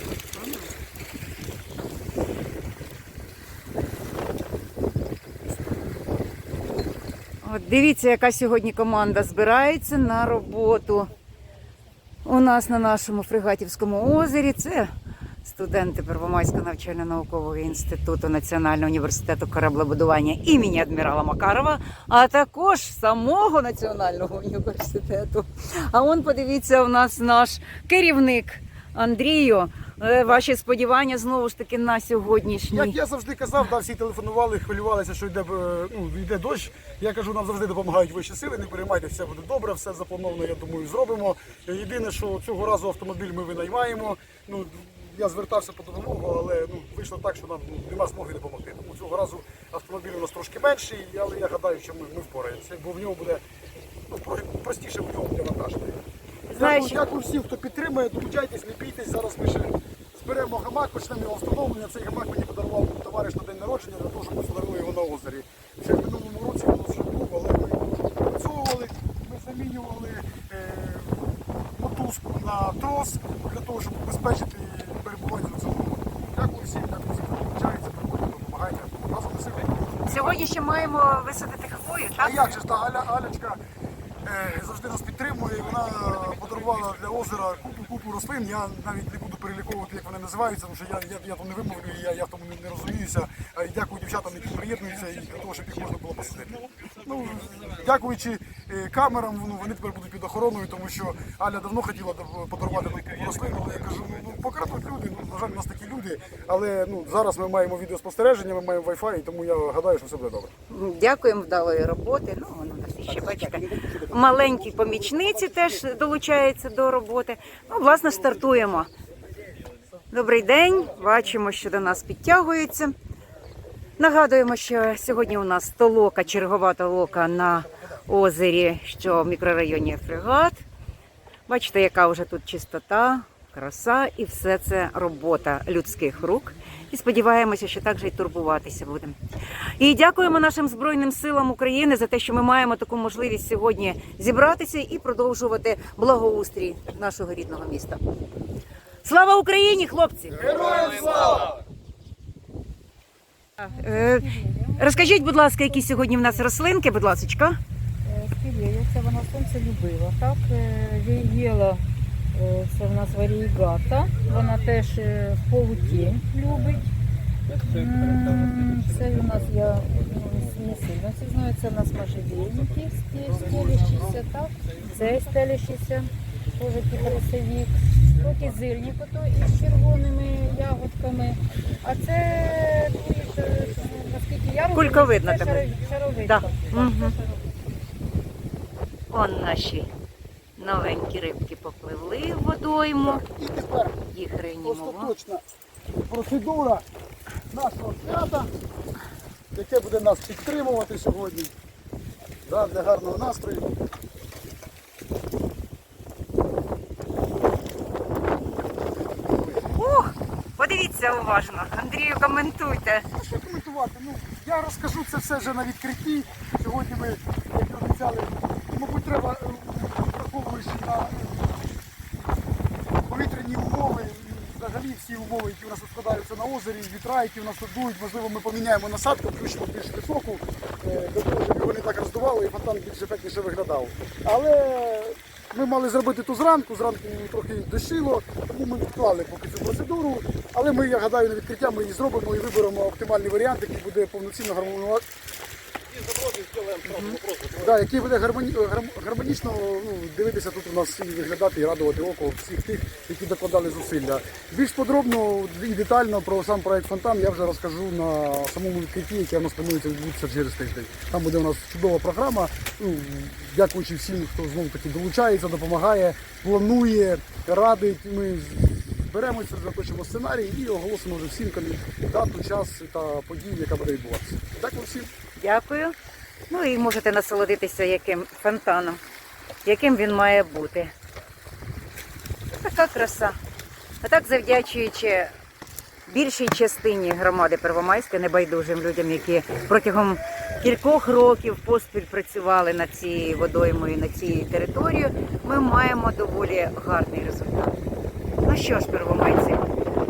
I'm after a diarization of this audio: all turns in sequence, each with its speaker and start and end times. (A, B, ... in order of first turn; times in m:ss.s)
0:00.3-0:00.7 A
0:07.4-0:11.1 A
0:12.2-0:14.9 A
0:15.4-0:33.0 A
0:32.7-0:53.4 B
0:54.1-0:55.9 B
0:56.5-0:57.1 A
0:56.5-1:20.3 B
1:20.1-1:22.6 A
1:22.2-1:23.6 B
1:24.2-1:50.5 B
1:50.7-1:58.9 A
1:53.2-1:55.8 B
2:00.1-2:02.9 A
2:04.0-2:10.6 A
2:11.5-2:28.0 A
2:29.0-2:30.8 A
2:30.4-2:31.6 B
2:33.6-2:37.6 A
2:33.6-2:35.2 C
2:38.0-2:46.9 C
2:47.6-3:07.5 C
3:04.7-3:05.7 A
3:06.2-3:07.2 A
3:09.1-3:09.9 A
3:10.6-3:13.2 A
3:13.0-3:14.0 B
3:14.1-3:15.1 A
3:14.6-3:15.4 B
3:16.1-3:16.8 B
3:17.5-3:18.5 B
3:19.5-3:21.5 B
3:22.4-3:23.7 B
3:29.6-3:33.0 A
3:33.1-3:41.7 B
3:43.1-4:05.0 B
4:06.8-4:07.2 A
4:07.4-4:35.1 B
4:35.4-4:35.9 A
4:36.5-4:39.0 A
4:39.6-4:40.9 A
4:42.5-4:43.4 A
4:44.0-4:45.3 A
4:46.1-4:57.8 A
4:58.4-4:59.6 A